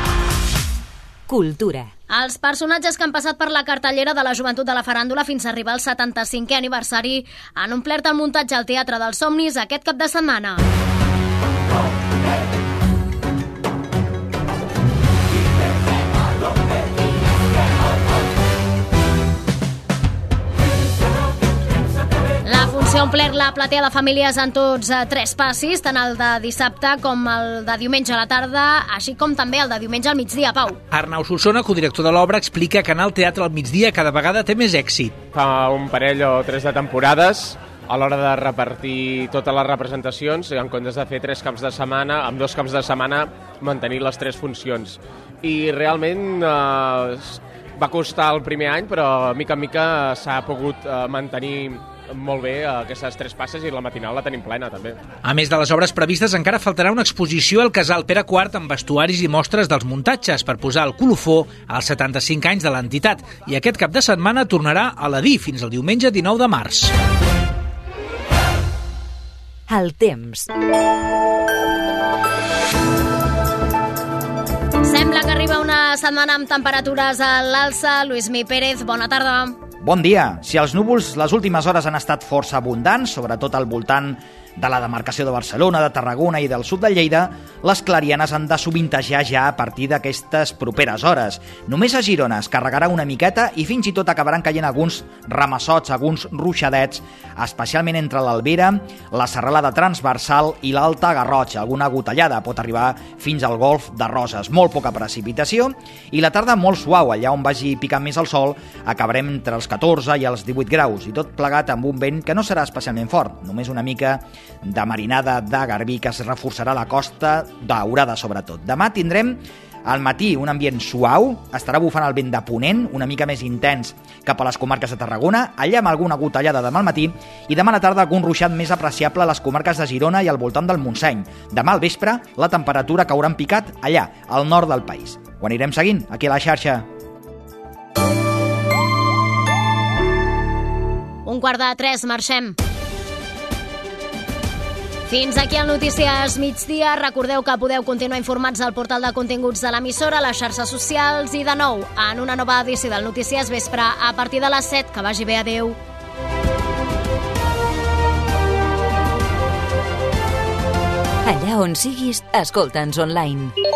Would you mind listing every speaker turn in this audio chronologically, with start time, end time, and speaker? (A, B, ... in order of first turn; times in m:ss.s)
0:01.3-0:01.9 A
0:02.1-0:10.6 B
0:22.4-0:30.8 B
0:30.9-0:35.2 C
0:35.3-0:55.0 D
0:55.2-1:06.9 C
1:09.7-1:10.5 A
1:14.8-1:19.6 B
1:19.8-2:16.9 E
2:21.3-2:22.6 B
2:25.1-2:35.8 B
2:41.2-2:43.6 A